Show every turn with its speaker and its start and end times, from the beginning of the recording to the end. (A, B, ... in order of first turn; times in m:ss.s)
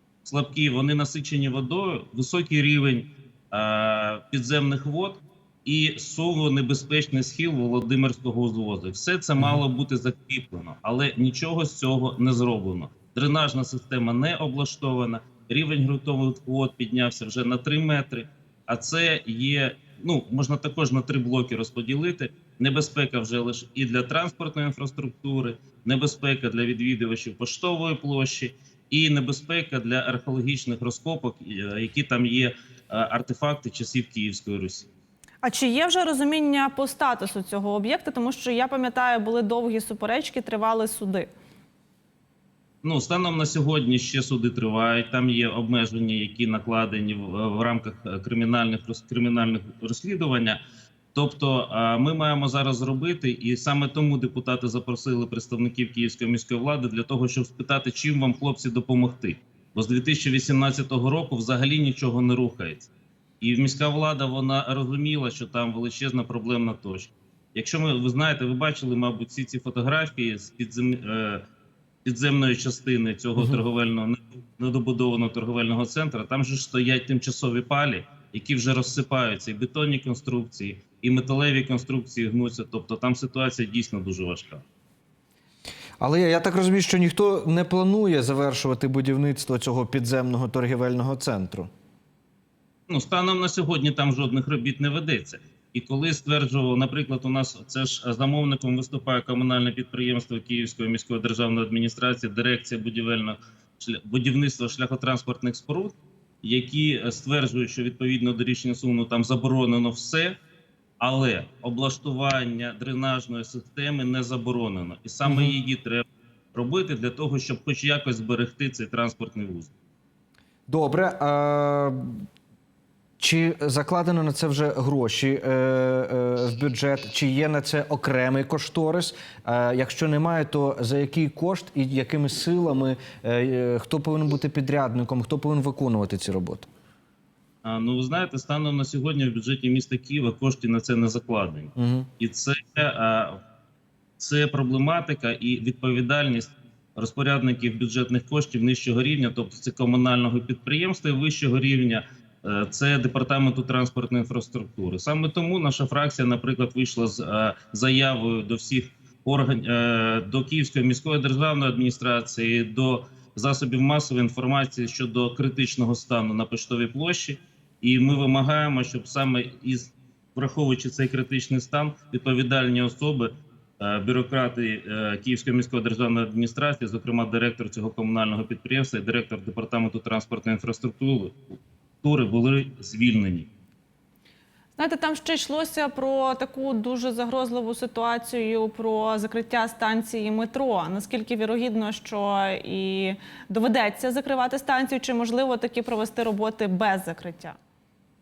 0:00.2-0:34.9 A
0:35.4-0:41.3 B
0:42.8-0:50.6 A
0:51.1-1:02.9 A
1:03.4-1:11.4 A
1:12.0-1:24.6 A
1:26.0-1:31.7 C
1:32.9-1:50.4 A
1:51.0-1:59.7 A
1:55.2-1:55.5 C
2:00.7-2:02.2 C
2:03.2-2:16.6 C
2:17.6-2:23.4 A
2:21.8-2:22.1 C
2:24.2-3:01.4 A
3:02.0-3:03.5 A
3:04.8-3:17.6 B